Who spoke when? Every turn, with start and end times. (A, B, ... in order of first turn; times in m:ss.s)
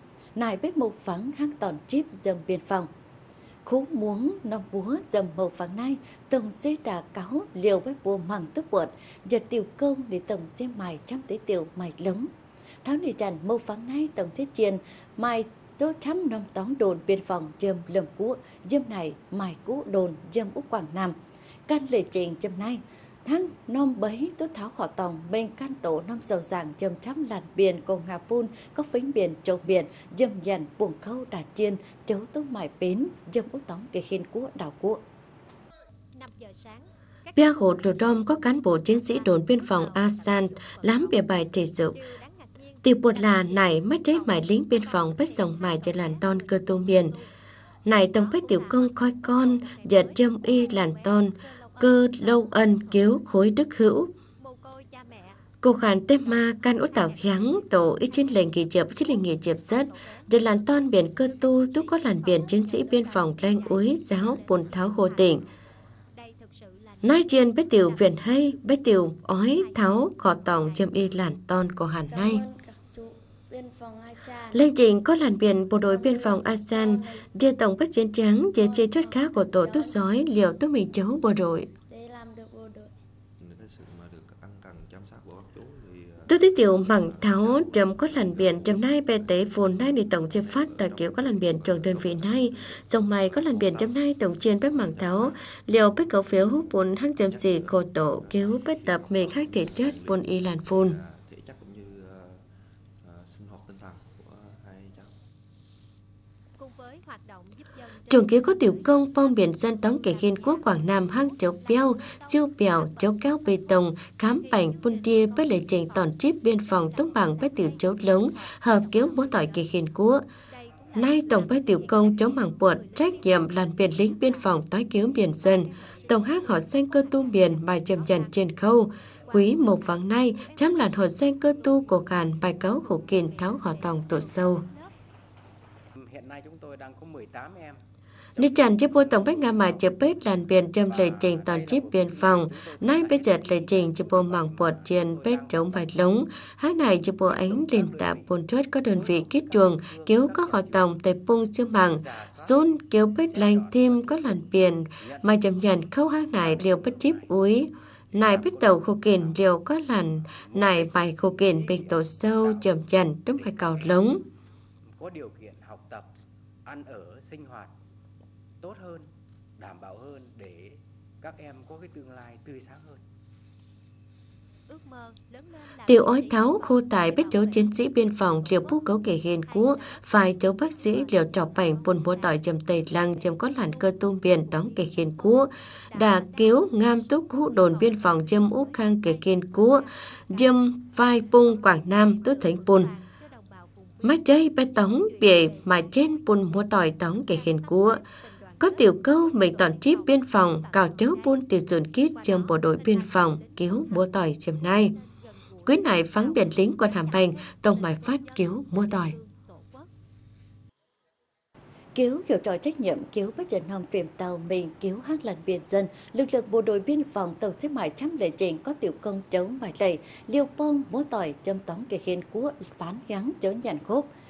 0:00.4-0:02.9 A
0:03.6-0:12.3 A
0:12.8-0:21.2 A
0:21.7-0:35.0 A
0:36.2-0:47.2 B
0:37.3-0:42.0 C
0:42.8-0:47.1 C
0:47.8-0:54.1 C
0:48.1-0:53.2 B
0:54.4-0:55.5 B
0:55.6-1:05.4 C
0:56.2-1:05.4 B
1:06.1-1:08.7 B
1:07.0-1:12.4 C
1:09.4-1:11.0 B
1:12.1-1:14.6 D
1:14.5-1:21.7 C
1:15.9-1:17.2 D
1:19.1-1:19.5 B
1:21.9-1:22.9 D
1:23.4-1:34.0 E
1:26.3-1:41.0 C
1:34.7-1:35.5 E
1:37.2-1:42.4 E
1:43.0-1:45.2 E
1:46.6-1:53.8 B
1:48.1-2:00.2 C
1:54.4-1:59.6 B
2:00.5-2:04.5 B
2:00.9-2:14.6 C
2:05.4-2:08.4 B
2:09.3-2:12.0 B
2:12.7-2:14.9 B
2:16.0-2:17.8 F
2:18.4-2:44.2 C
2:18.4-2:20.1 F
2:20.8-2:25.9 F
2:27.2-2:28.2 F
2:28.9-2:30.9 F
2:31.9-2:32.5 F
2:33.2-2:35.2 F
2:36.4-2:37.5 F
2:38.1-2:39.3 F
2:40.4-2:40.9 F
2:41.4-2:42.7 F
2:43.4-2:43.9 F
2:45.0-2:46.1 F
2:46.6-2:47.7 F
2:48.6-2:53.0 F
2:54.7-2:57.8 B
2:55.8-3:12.9 C
2:58.4-2:58.8 B
2:59.5-3:10.5 B
3:11.1-3:16.4 B
3:14.0-3:18.0 C
3:17.2-3:29.9 B
3:18.6-3:24.9 C
3:25.6-3:29.2 C
3:31.9-3:44.1 A